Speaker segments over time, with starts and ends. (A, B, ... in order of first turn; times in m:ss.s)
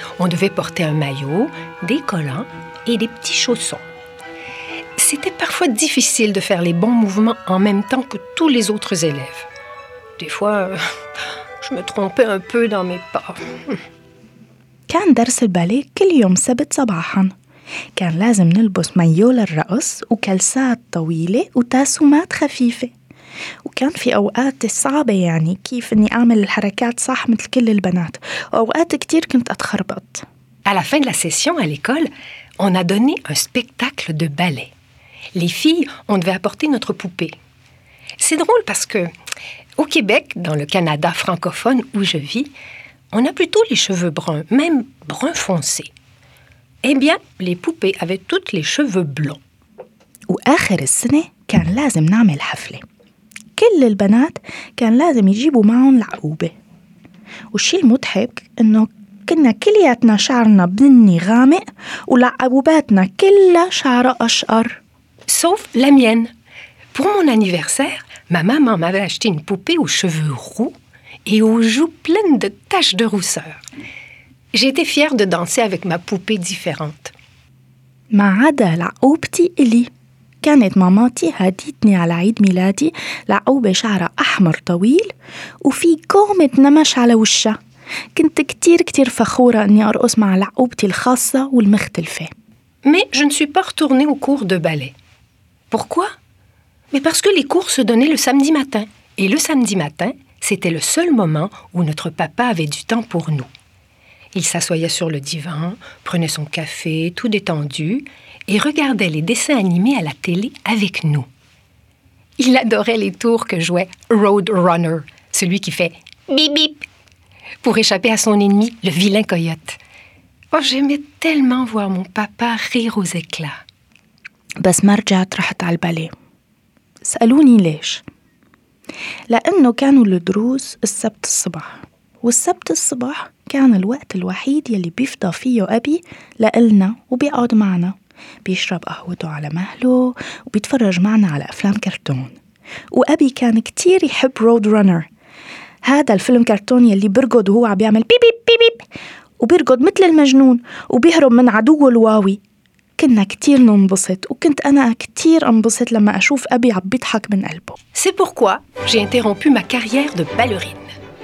0:00.2-0:03.8 A
0:05.0-0:09.5 A
0:10.2-0:10.8 A
0:11.6-0:13.8 A
0:14.9-0:17.3 B
0:18.0-0:22.9 B
0:23.6-0:30.2 B
0:30.6-0:34.7 A
0:35.3-0:37.3 A
0:38.2-0:39.1 A
0:39.8-0:42.5 A
0:43.1-0:45.9 A
0:46.8-0:49.4 A
0:50.3-0:52.8 B
0:53.6-0:56.5 B
0:57.5-1:04.8 B
1:05.3-1:06.3 A
1:06.9-1:13.6 A
1:14.5-1:17.1 A
1:18.1-1:19.9 B
1:20.4-1:27.6 B
1:28.1-1:32.3 B
1:32.8-1:34.9 A
1:35.7-1:36.1 A
1:36.9-1:43.5 A
1:44.3-1:51.3 A
1:52.4-1:56.8 A
1:57.6-1:59.8 A
2:00.5-2:03.6 A
2:04.6-2:06.1 B
2:07.0-2:08.0 B
2:09.3-2:22.4 B
2:22.9-2:25.1 B
2:25.8-2:28.9 B
2:29.4-2:32.4 B
2:33.0-2:37.8 B
2:37.9-2:40.9 A